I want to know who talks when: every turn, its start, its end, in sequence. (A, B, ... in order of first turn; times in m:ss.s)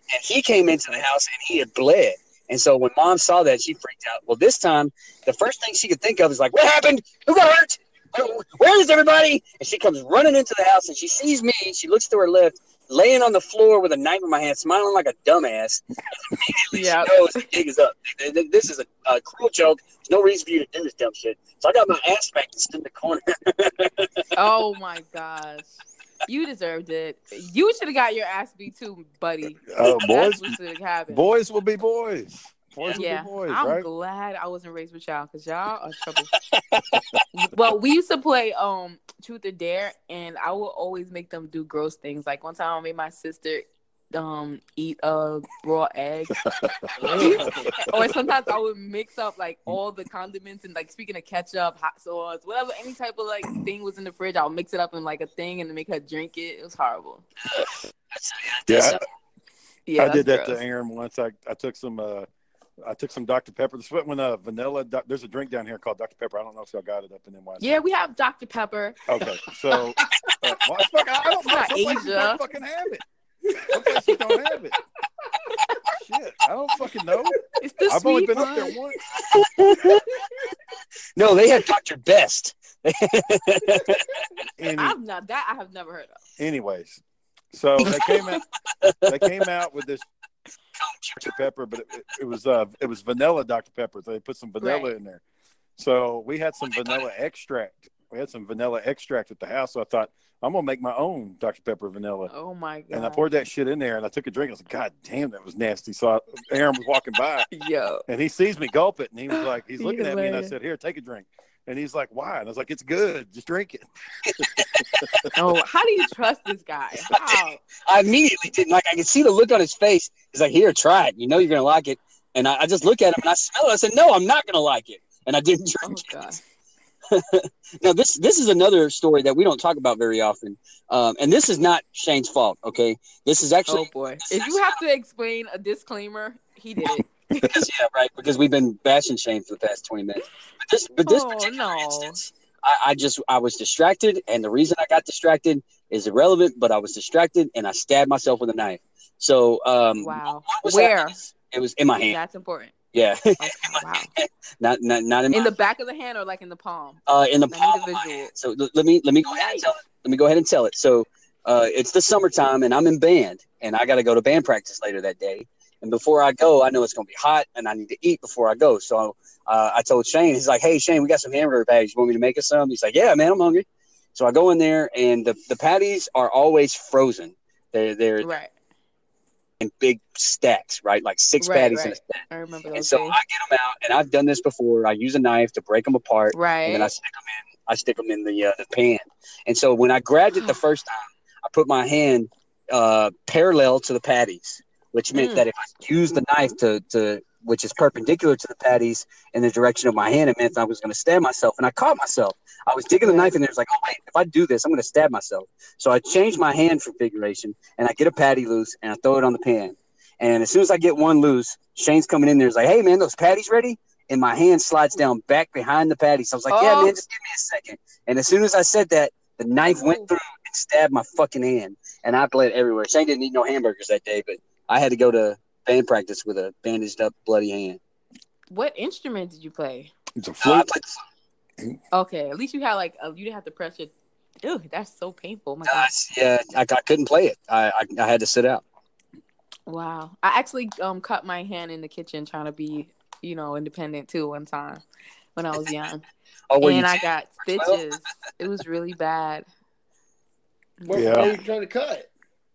0:00.1-0:24.1 A
0:16.7-0:17.4 B
0:24.4-0:31.3 B
0:29.6-0:30.6 C
0:31.1-0:33.9 C
0:32.9-0:36.3 B
0:36.8-0:37.2 C
0:37.3-0:46.4 B
0:46.4-0:46.9 C
0:47.0-0:47.9 D
0:47.1-0:57.2 B
0:47.5-0:48.1 C
0:57.5-0:59.1 A
0:58.7-0:59.0 C
0:59.9-1:00.6 B
1:00.0-1:02.3 C
1:02.8-1:07.7 C
1:07.6-1:09.0 B
1:09.1-1:13.0 C
1:11.4-1:12.4 B
1:13.5-1:13.8 D
1:13.7-1:14.8 C
1:15.9-1:19.0 C
1:17.6-1:18.8 B
1:19.3-1:20.1 A
1:19.7-1:20.3 D
1:21.2-1:24.1 A
1:24.6-1:25.0 C
1:24.7-1:26.2 B
1:26.4-1:28.4 C
1:28.8-1:29.3 A
1:29.1-1:30.1 C
1:30.8-1:31.4 A
1:31.2-1:35.2 C
1:34.6-1:34.9 B
1:35.8-1:42.3 C
1:36.7-1:37.0 A
1:42.3-1:43.2 B
1:42.9-1:47.5 C
1:47.5-1:48.0 B
1:48.1-1:53.8 C
1:49.3-1:50.6 B
1:54.2-1:55.3 A
1:54.4-1:55.3 C
1:55.4-1:57.6 B
1:57.1-2:06.1 A
2:05.8-2:06.4 B
2:07.1-2:14.8 A
2:13.7-2:17.5 B
2:17.4-2:32.2 A
2:21.1-2:22.2 B
2:30.0-2:31.2 B
2:32.1-2:32.7 B
2:32.9-2:35.5 A
2:33.4-2:34.1 B
2:35.3-2:38.3 B
2:37.1-2:58.3 A
2:39.2-2:39.7 B
2:58.2-2:58.5 B
2:59.6-3:02.2 A
3:01.4-3:03.2 B
3:02.7-3:47.8 A
3:06.3-3:06.9 B
3:15.1-3:15.5 B
3:23.0-3:23.3 B
3:36.5-3:37.0 B
3:39.7-3:40.1 B
3:48.5-3:49.9 B
3:50.2-3:50.7 C
3:50.4-3:51.0 A
3:51.9-3:53.9 B
3:54.4-3:55.9 B
3:55.6-3:58.6 A
3:59.7-4:04.8 B
4:05.4-4:06.0 B
4:06.5-4:07.8 A
4:06.6-4:09.5 B
4:10.8-4:11.4 B
4:10.9-4:12.1 D
4:10.9-4:11.3 C